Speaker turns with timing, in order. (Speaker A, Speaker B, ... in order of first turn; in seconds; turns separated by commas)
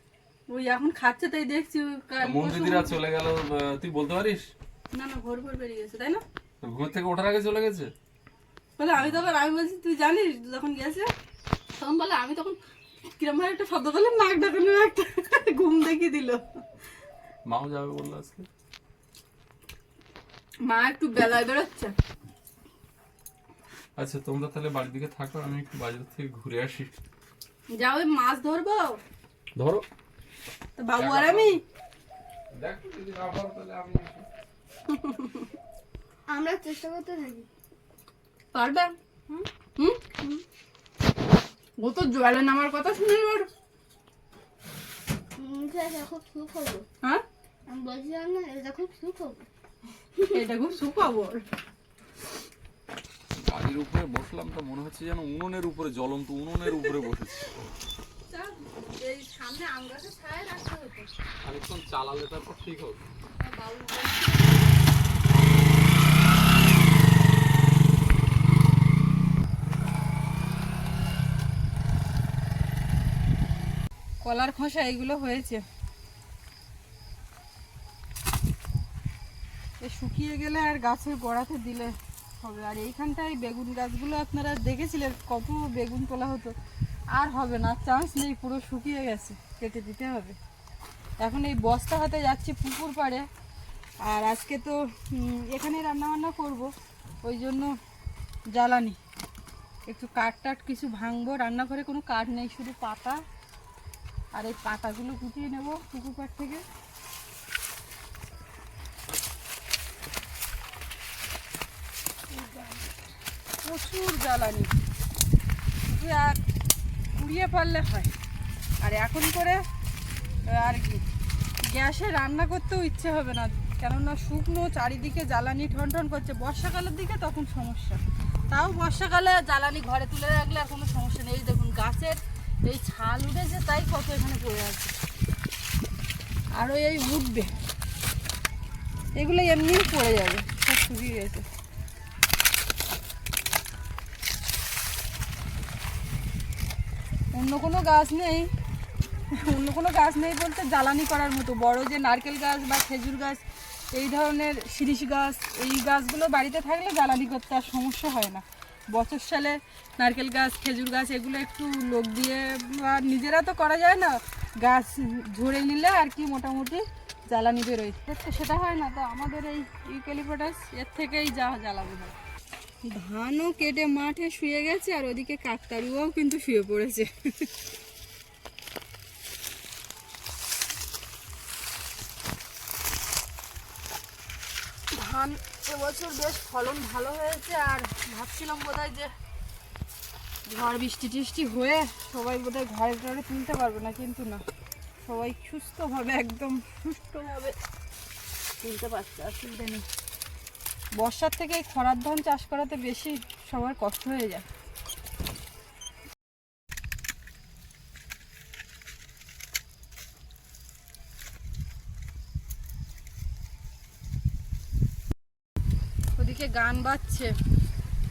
Speaker A: 0.5-3.0, Speaker B: 2.2-4.4, Speaker A: 4.9-6.2, Speaker B: 6.6-7.9, Speaker A: 8.8-11.1, Speaker A: 11.8-12.6, Speaker A: 13.1-16.4, Speaker B: 17.5-18.5, Speaker A: 20.6-21.9, Speaker B: 24.0-26.9, Speaker A: 27.8-29.0, Speaker B: 29.6-29.8, Speaker A: 30.8-31.6, Speaker B: 30.9-31.6, Speaker B: 32.5-34.3, Speaker A: 34.9-35.5, Speaker C: 36.3-37.5, Speaker A: 38.5-40.0, Speaker A: 41.8-43.5, Speaker C: 45.4-46.9, Speaker C: 47.7-49.5, Speaker A: 50.3-51.4, Speaker B: 53.3-57.6, Speaker A: 58.3-61.1, Speaker B: 61.4-63.0, Speaker A: 63.4-64.7, Speaker A: 74.2-75.6, Speaker A: 79.8-86.5, Speaker A: 87.1-90.4, Speaker A: 91.2-93.3, Speaker A: 94.0-96.7, Speaker A: 97.2-97.7, Speaker A: 98.5-99.0, Speaker A: 99.9-103.2, Speaker A: 104.3-106.6, Speaker A: 113.6-114.7, Speaker A: 115.9-116.4, Speaker A: 117.1-118.1, Speaker A: 118.8-119.6, Speaker A: 120.5-121.0, Speaker A: 121.7-134.9, Speaker A: 136.5-137.5, Speaker A: 139.1-141.4, Speaker A: 147.3-148.5, Speaker A: 149.3-172.1, Speaker A: 172.8-177.5, Speaker A: 184.9-189.1, Speaker A: 190.5-194.4, Speaker A: 195.0-197.5, Speaker A: 198.6-199.8, Speaker A: 200.9-204.4, Speaker A: 216.2-217.3